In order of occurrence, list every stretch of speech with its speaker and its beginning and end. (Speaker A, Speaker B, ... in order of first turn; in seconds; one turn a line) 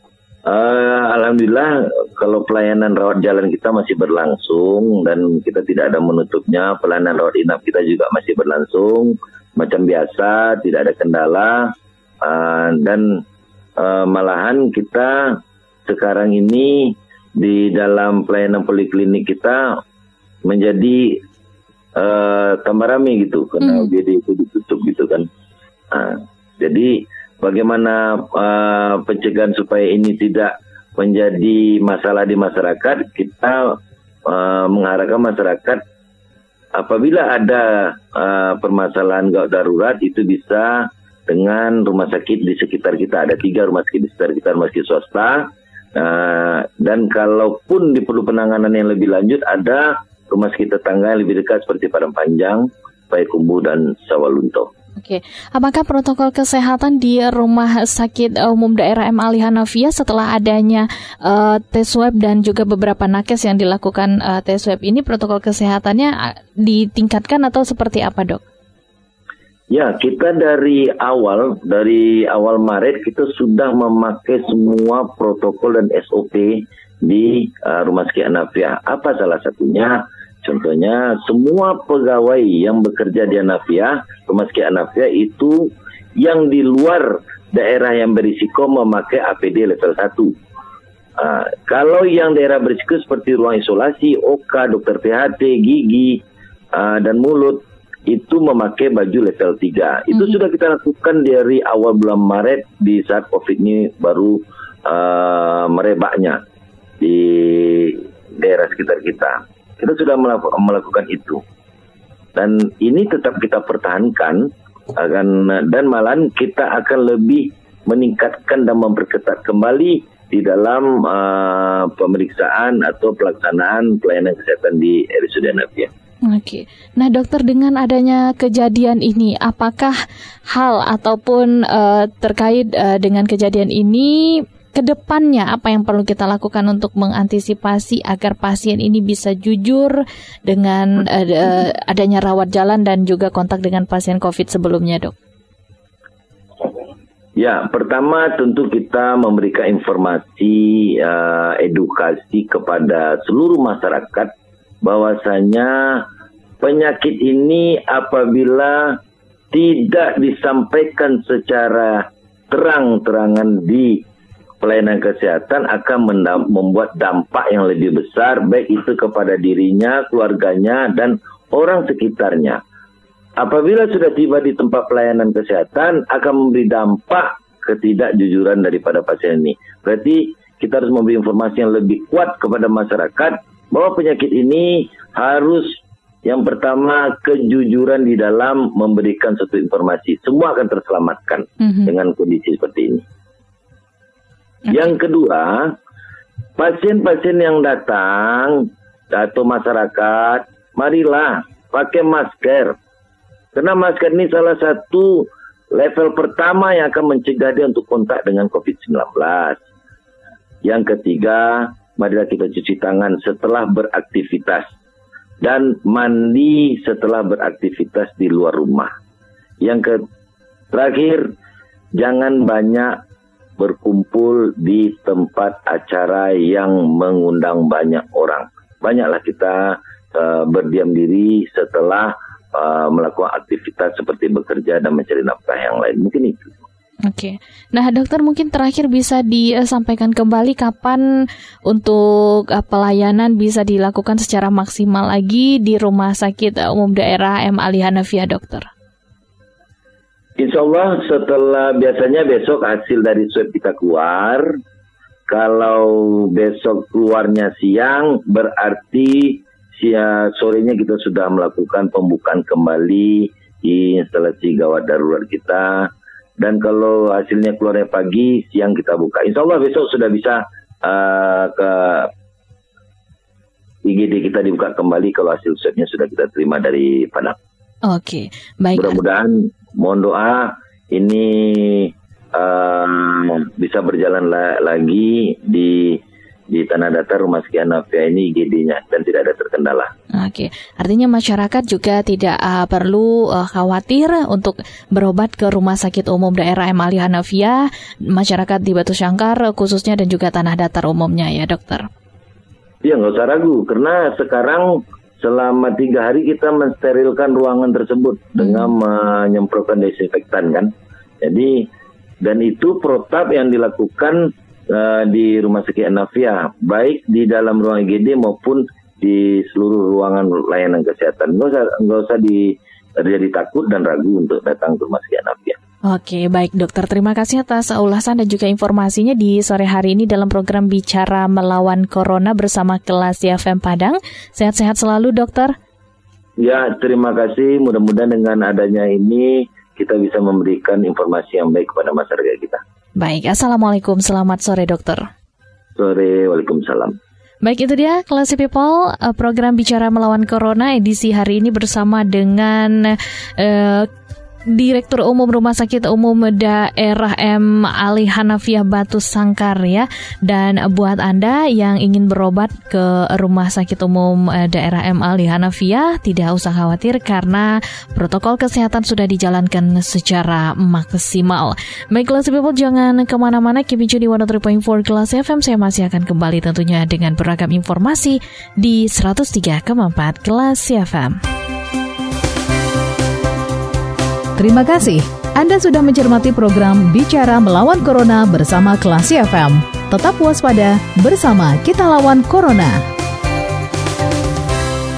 Speaker A: 0.5-13.2
Speaker A: 13.8-19.8
Speaker A: 20.4-21.2
Speaker A: 21.9-25.3
Speaker B: 23.6-23.9
Speaker A: 25.9-35.8
Speaker A: 36.8-54.7
Speaker B: 55.0-68.4
Speaker A: 69.7-90.3
Speaker A: 91.2-96.2
Speaker A: 96.7-106.4
Speaker A: 107.0-111.4
Speaker A: 112.3-125.9
Speaker B: 126.2-130.0
Speaker B: 130.5-145.2
Speaker A: 147.4-156.1
Speaker A: 156.6-159.0
Speaker A: 159.5-164.0
Speaker A: 164.6-172.6
Speaker A: 173.4-193.0
Speaker B: 191.6-191.9
Speaker A: 194.7-195.8
Speaker A: 196.6-202.8
Speaker A: 203.6-209.6
Speaker A: 210.6-214.7
Speaker A: 215.4-218.9
Speaker A: 219.6-220.0
Speaker A: 220.7-221.3
Speaker A: 221.9-223.0
Speaker A: 223.6-236.6
Speaker B: 237.1-241.0
Speaker B: 241.7-248.7
Speaker A: 250.4-254.6
Speaker A: 255.3-272.1
Speaker A: 273.9-277.4
Speaker B: 277.9-279.0
Speaker A: 278.7-289.9
Speaker B: 290.1-301.9
Speaker A: 302.8-311.7
Speaker A: 312.2-325.6
Speaker B: 325.9-335.5
Speaker A: 336.4-342.6
Speaker B: 343.0-345.1
Speaker A: 345.8-347.0
Speaker B: 347.4-353.9
Speaker B: 354.5-381.1
Speaker C: 384.4-392.9